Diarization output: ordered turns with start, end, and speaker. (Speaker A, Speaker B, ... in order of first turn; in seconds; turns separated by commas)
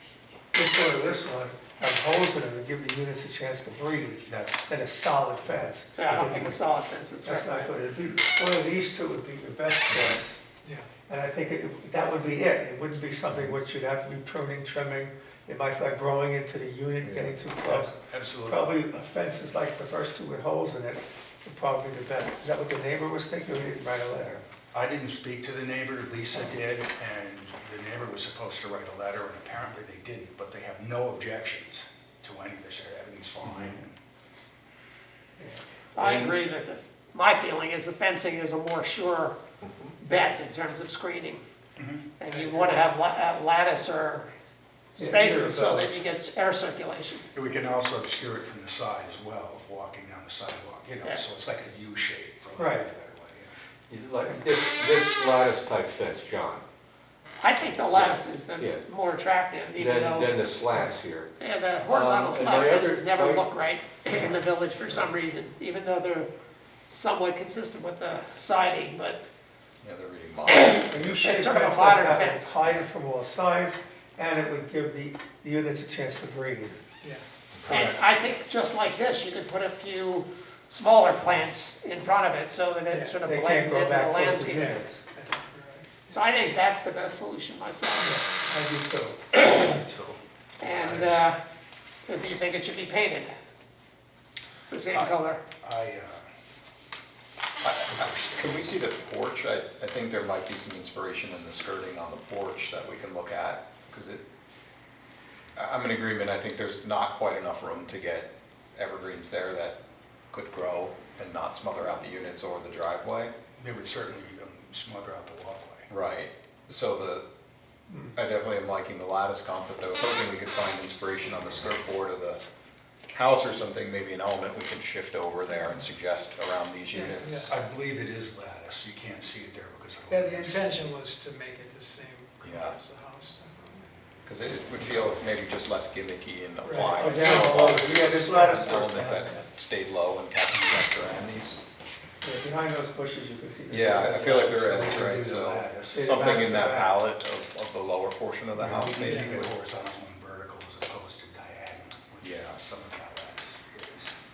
Speaker A: 0.5-6.6, Speaker B: 4.3-4.7, Speaker C: 6.0-7.7, Speaker A: 7.2-10.4, Speaker A: 11.1-24.4, Speaker D: 17.0-17.4, Speaker B: 17.6-18.8, Speaker B: 24.7-34.0, Speaker C: 35.9-39.4, Speaker D: 36.0-36.4, Speaker D: 39.6-39.9, Speaker C: 40.0-41.4, Speaker B: 41.8-42.1, Speaker C: 42.2-44.3, Speaker E: 42.4-42.8, Speaker C: 44.9-47.2, Speaker A: 45.0-45.9, Speaker B: 47.3-53.5, Speaker A: 52.5-52.9, Speaker D: 53.9-56.6, Speaker C: 57.4-60.4, Speaker D: 57.9-58.8, Speaker D: 59.7-61.3, Speaker C: 61.4-66.3, Speaker D: 61.9-63.5, Speaker C: 66.9-69.2, Speaker F: 69.8-71.2, Speaker C: 70.5-72.6, Speaker A: 70.9-76.8, Speaker B: 77.6-77.9, Speaker C: 77.7-84.7, Speaker E: 82.9-83.2, Speaker A: 83.2-85.0, Speaker E: 84.6-86.2, Speaker C: 86.1-88.1, Speaker A: 88.0-89.2, Speaker C: 89.3-89.7, Speaker B: 89.5-91.2, Speaker C: 90.6-91.4, Speaker C: 92.1-93.3, Speaker C: 94.7-95.4, Speaker B: 94.9-96.2, Speaker F: 97.6-104.2, Speaker B: 97.9-98.8, Speaker F: 105.5-109.8, Speaker F: 110.3-113.3, Speaker B: 113.6-115.9, Speaker F: 115.9-117.2, Speaker A: 117.9-118.1, Speaker F: 118.1-122.4, Speaker F: 123.1-127.5, Speaker E: 125.5-125.9, Speaker E: 126.9-127.5, Speaker B: 127.5-130.8, Speaker E: 130.1-133.9, Speaker F: 132.4-132.8, Speaker F: 134.2-141.6, Speaker E: 136.6-137.6, Speaker A: 136.9-139.4, Speaker A: 142.2-144.7, Speaker F: 143.7-149.5, Speaker B: 144.3-146.1, Speaker A: 145.9-147.0, Speaker A: 148.6-149.3, Speaker B: 148.6-154.1, Speaker F: 152.2-152.6